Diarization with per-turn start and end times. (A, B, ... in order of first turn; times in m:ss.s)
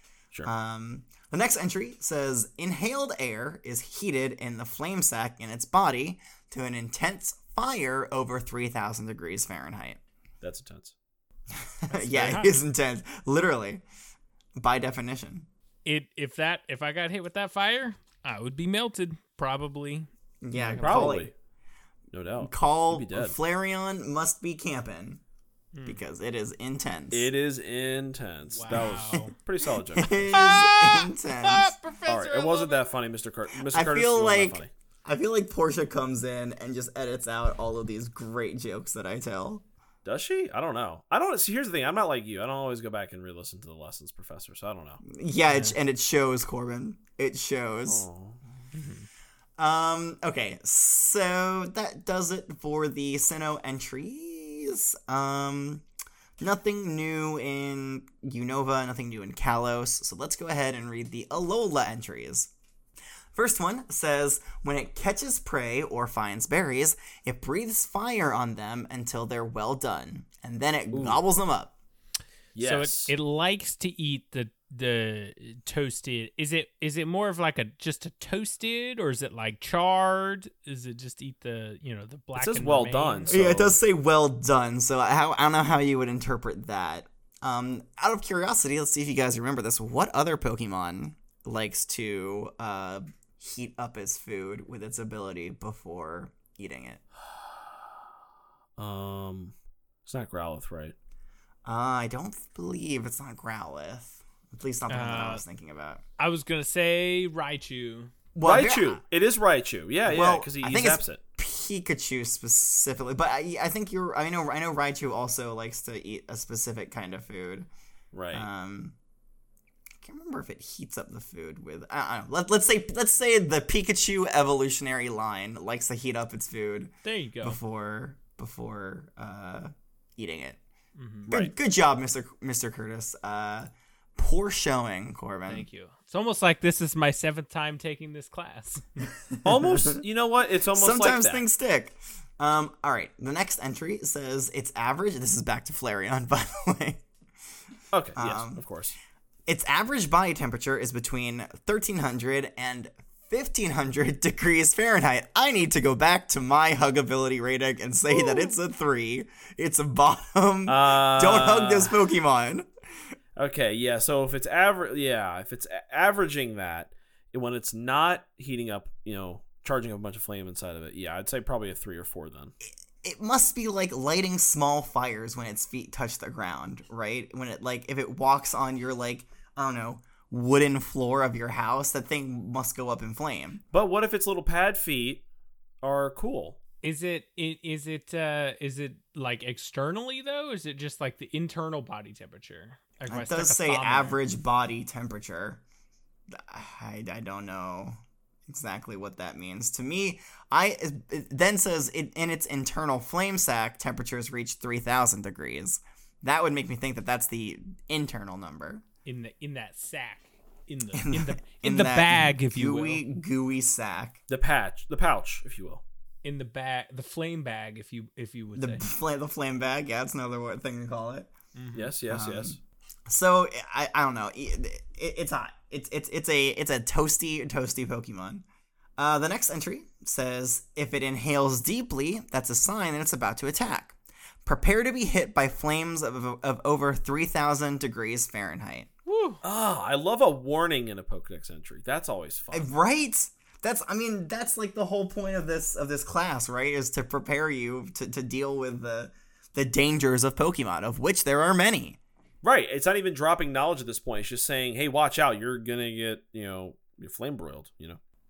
0:00.4-0:10.0 A
0:10.4-0:10.9 B
0:11.5-0:13.8 A
0:11.9-0:12.6 C
0:14.6-0:15.5 A
0:15.8-0:21.2 C
0:20.4-0:21.3 A
0:20.8-0:21.3 B
0:22.1-0:23.4 B
0:22.4-0:25.2 A
0:25.7-0:26.0 C
0:25.8-0:27.3 A
0:27.1-0:30.4 B
0:28.5-0:29.3 C
0:28.7-0:29.2 A
0:29.9-0:31.7 A
0:30.3-0:32.8 C
0:32.1-0:34.7 B
0:33.6-0:39.6 A
0:40.0-0:45.0 B
0:45.0-0:48.0 A
0:45.5-0:45.8 C
0:47.9-0:48.4 B
0:48.7-0:49.1 C
0:49.6-0:55.8 A
0:56.4-1:02.5 A
1:03.3-1:11.7 A
1:10.9-1:11.2 B
1:12.5-1:13.1 B
1:12.6-1:23.4 C
1:22.4-1:23.8 B
1:23.3-1:37.0 A
1:38.8-1:39.5 B
1:40.0-1:40.9 B
1:41.6-1:46.0 A
1:44.9-1:45.4 C
1:46.2-1:48.1 C
1:48.3-1:49.0 A
1:48.4-1:51.2 B
1:50.0-1:57.7 A
1:58.1-1:58.4 B
1:58.3-1:59.0 A
2:00.0-2:10.6 A
2:07.0-2:07.6 C
2:11.0-2:11.3 C
2:11.3-2:11.5 B
2:11.3-2:15.6 A
2:15.5-2:19.1 C
2:19.3-2:20.0 A
2:19.4-2:21.4 B
2:20.7-2:27.0 A
2:27.9-2:28.9 B
2:28.2-2:28.6 A
2:29.5-2:42.7 A
2:40.7-2:42.0 B
2:43.4-2:52.5 B
2:53.0-3:03.6 A
3:03.7-3:05.2 B
3:05.8-3:06.6 B
3:06.8-3:14.2 C
3:13.1-3:15.6 A
3:16.3-3:18.0 A
3:18.5-3:28.8 A
3:29.0-3:33.0 C
3:30.9-3:34.2 A
3:34.3-3:35.8 B
3:36.2-3:38.8 C
3:38.6-3:41.3 A
3:41.6-3:41.9 C
3:41.7-3:42.6 B
3:42.1-3:48.4 A
3:49.0-3:58.9 A
3:59.1-3:59.4 C
3:59.4-4:02.7 B
4:02.5-4:12.0 A
4:12.4-4:18.0 B